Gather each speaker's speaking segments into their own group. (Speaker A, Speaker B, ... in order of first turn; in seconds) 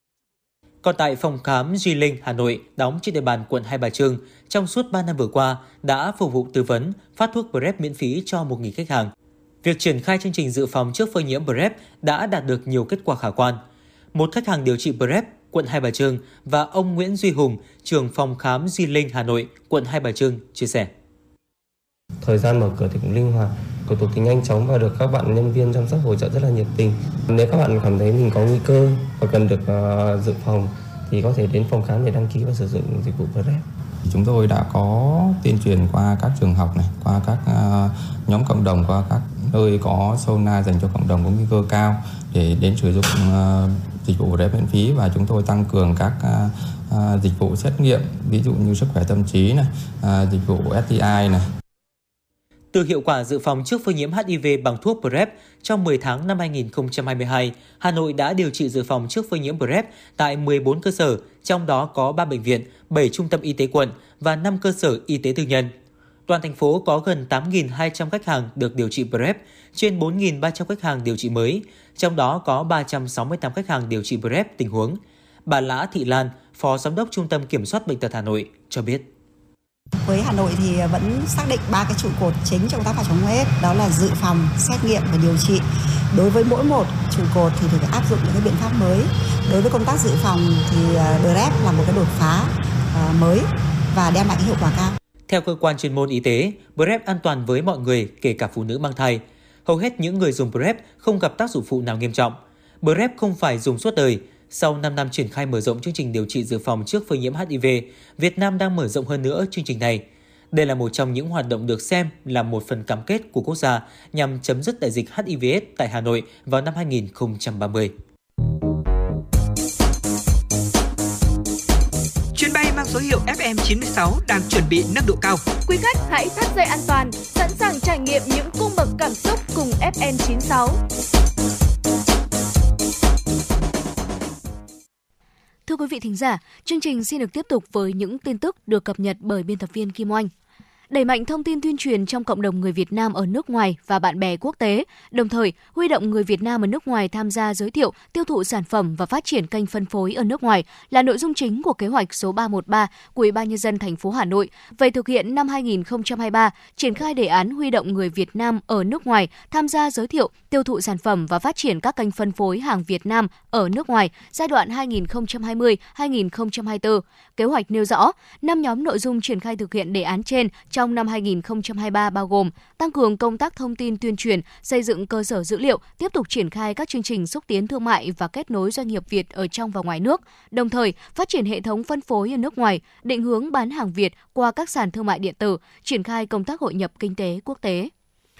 Speaker A: 0.8-9.1, 9.6-13.6, 14.1-20.9, 52.7-65.7, 66.3-79.1, 95.3-117.9
Speaker B: 22.2-33.6
Speaker C: 34.0-51.5
Speaker D: 80.0-95.0
Speaker E: 122.3-125.4
Speaker F: 125.7-130.8
Speaker G: 135.7-140.3, 140.9-187.9